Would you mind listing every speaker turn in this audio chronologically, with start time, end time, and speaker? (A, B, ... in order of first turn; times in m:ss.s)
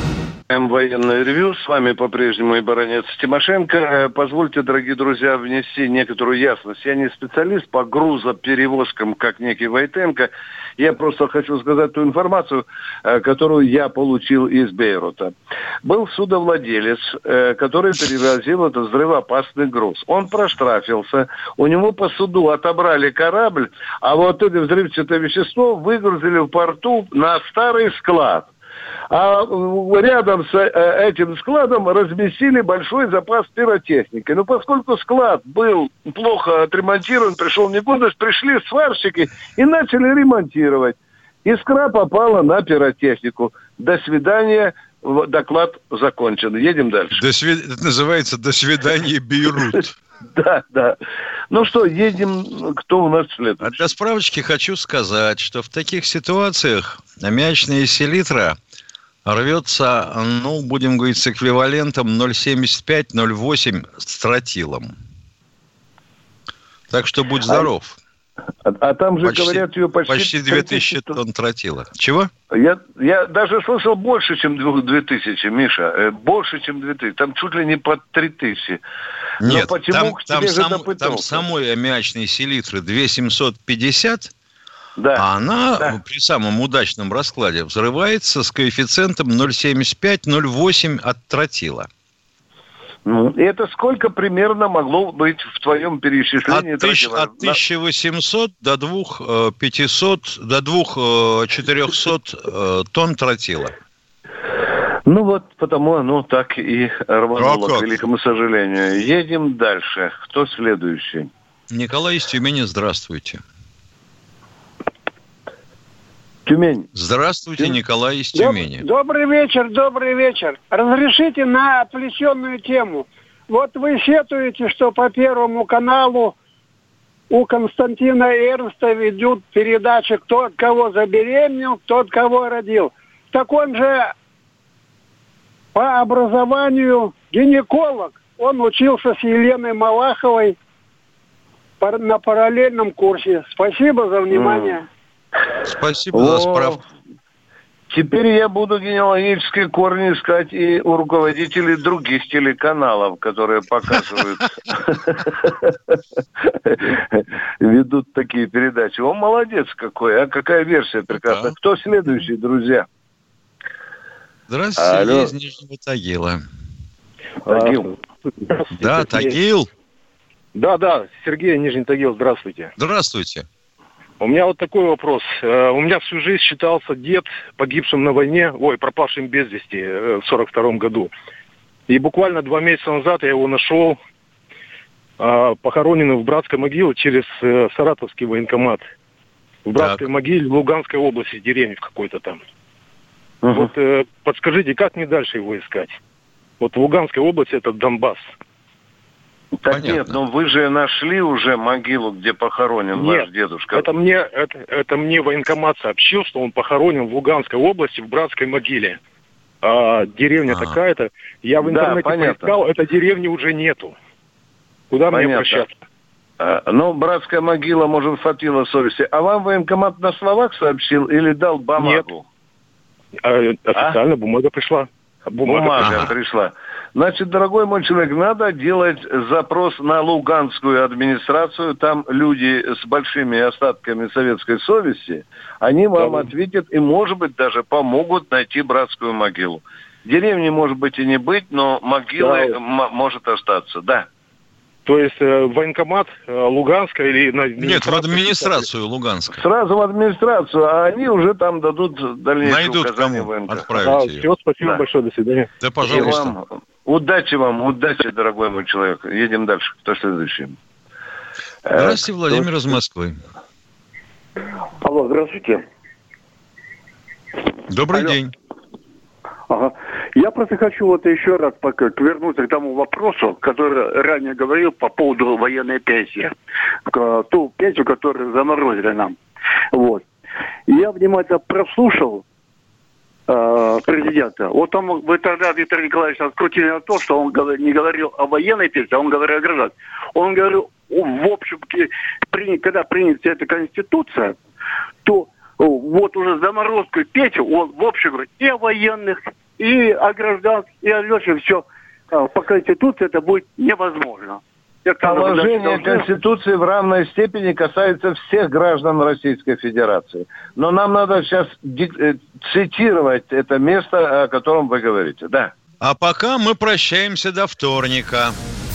0:00.5-0:15.3 A
0:15.8-0:28.5 A
0:29.1-0:47.2 A
0:47.1-0:49.9 B
0:50.3-0:51.0 A
0:51.5-0:53.8 A
0:53.6-0:58.6 B
0:59.2-1:04.9 B
1:06.9-1:08.0 B
1:08.6-1:11.2 A
1:09.2-1:12.3 B
1:12.5-1:18.8 A
1:19.4-1:24.3 B
1:19.4-1:21.4 A
1:25.0-1:25.2 A
1:25.1-1:31.9 B
1:33.0-1:37.6 A
1:36.5-1:43.7 B
1:45.0-1:51.3 A
1:47.4-1:48.0 B
1:51.7-1:53.4 B
1:56.4-1:56.9 A
1:56.9-1:58.8 B
1:58.3-2:06.3 C
2:07.3-2:14.1 C
2:15.7-2:20.6 C
2:21.8-2:24.8 C
2:24.3-2:24.8 A
2:25.7-2:26.8 B
2:26.1-2:26.8 A
2:27.9-2:35.7 A
2:36.6-2:42.8 A
2:41.1-2:41.5 B
2:44.5-2:46.4 B
2:44.8-2:45.3 A
2:47.4-2:47.9 A
2:47.4-2:49.4 D
2:48.7-2:49.7 B
2:50.5-2:52.7 D
2:52.8-2:53.4 B
2:54.2-3:01.1 D
3:01.9-3:04.0 D
3:05.2-3:08.9 D
3:09.6-3:12.4 D
3:09.8-3:10.0 B
3:13.4-3:13.7 A
3:13.5-3:16.0 D
3:16.6-3:18.3 D
3:19.6-3:23.9 A
3:19.7-3:20.2 B
3:22.9-3:29.0 D
3:29.6-3:33.9 D
3:30.5-3:30.8 B
3:31.6-3:32.6 A
3:34.9-3:35.7 D
3:35.1-3:35.6 A
3:36.4-3:42.2 A
3:41.8-3:42.1 D
3:43.2-3:45.8 D
3:45.4-4:04.1 A
3:45.8-3:46.1 B
3:56.0-3:56.3 D
4:02.2-4:02.5 D
4:04.8-4:08.6 D
4:07.6-4:09.4 B
4:09.3-4:13.7 A
4:12.4-4:14.3 B
4:13.8-4:15.5 D
4:15.6-4:16.3 B
4:15.8-4:20.6 A
4:21.6-4:22.5 A
4:21.7-4:23.2 B
4:24.8-4:25.6 E
4:27.7-4:28.3 B
4:29.5-4:36.3 E
4:36.9-4:39.2 E
4:39.7-4:40.0 E
4:40.7-4:42.2 E
4:43.3-4:54.4 E
4:55.0-5:06.1 E
5:05.0-5:15.5 A
5:15.8-5:18.4 B